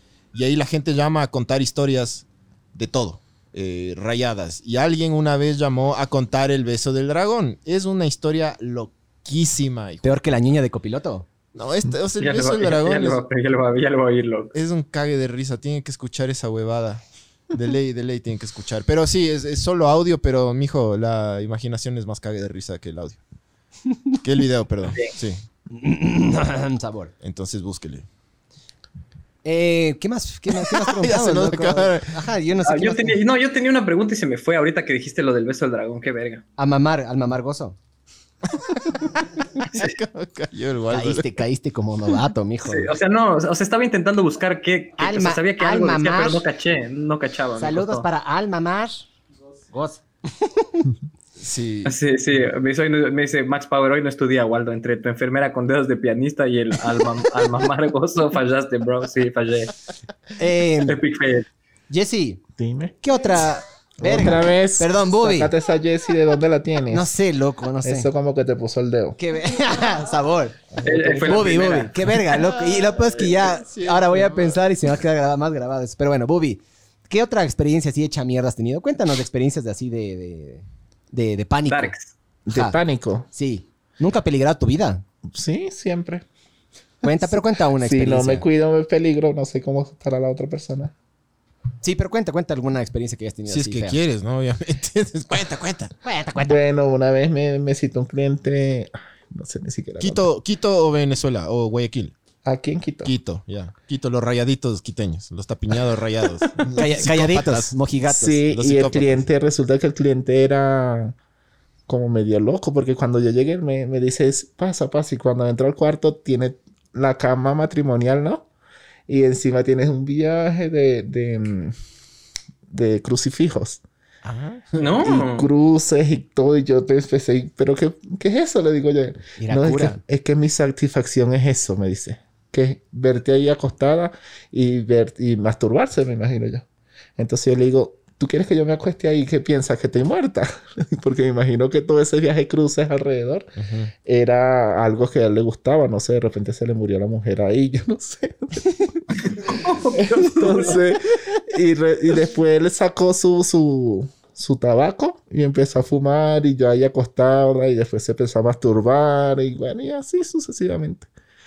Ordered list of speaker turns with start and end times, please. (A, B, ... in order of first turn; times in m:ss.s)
0:00.3-0:10.2 A
0:10.0-0:11.3 B
0:11.5-0:13.2 A
0:12.2-0:14.5 C
0:14.5-0:23.2 A
0:24.2-0:25.4 A
0:25.7-0:27.1 B
0:27.2-0:28.1 A
0:29.4-0:33.2 B
0:30.5-0:32.3 A
0:32.6-0:36.4 C
0:36.6-0:37.8 B
0:38.5-0:41.3 A
0:40.9-0:42.9 B
0:42.7-0:48.1 C
0:45.0-0:46.4 B
0:47.6-0:49.1 B
0:49.7-0:50.8 B
0:51.4-0:52.0 A
0:51.8-0:59.8 C
1:00.4-1:01.0 B
1:00.8-1:01.5 C
1:01.9-1:02.4 B
1:02.6-1:03.0 D
1:03.0-1:05.5 B
1:04.0-1:07.1 D
1:06.9-1:08.1 B
1:07.8-1:09.2 D
1:09.2-1:10.6 B
1:10.7-1:11.5 D
1:10.8-1:12.1 C
1:11.2-1:21.9 B
1:12.3-1:14.6 A
1:21.7-1:22.1 C
1:22.5-1:23.3 D
1:22.5-1:22.8 B
1:23.3-1:25.0 B
1:25.3-1:26.2 D
1:27.0-1:28.5 B
1:27.0-1:30.9 D
1:31.8-1:34.0 B
1:33.5-1:35.9 A
1:36.0-1:36.6 B
1:36.4-1:40.3 D
1:40.0-1:42.1 A
1:42.4-1:43.1 D
1:43.0-1:47.7 A
1:46.7-1:48.4 B
1:48.1-1:51.2 D
1:48.5-1:49.2 A
1:51.9-1:58.5 D
1:59.1-2:01.8 D
2:02.7-2:03.8 D
2:04.2-2:04.8 A
2:04.7-2:05.5 C
2:05.0-2:16.6 D
2:09.4-2:10.0 B
2:17.2-2:23.5 D
2:23.6-2:23.9 A
2:24.0-2:41.1 D
2:29.3-2:30.8 C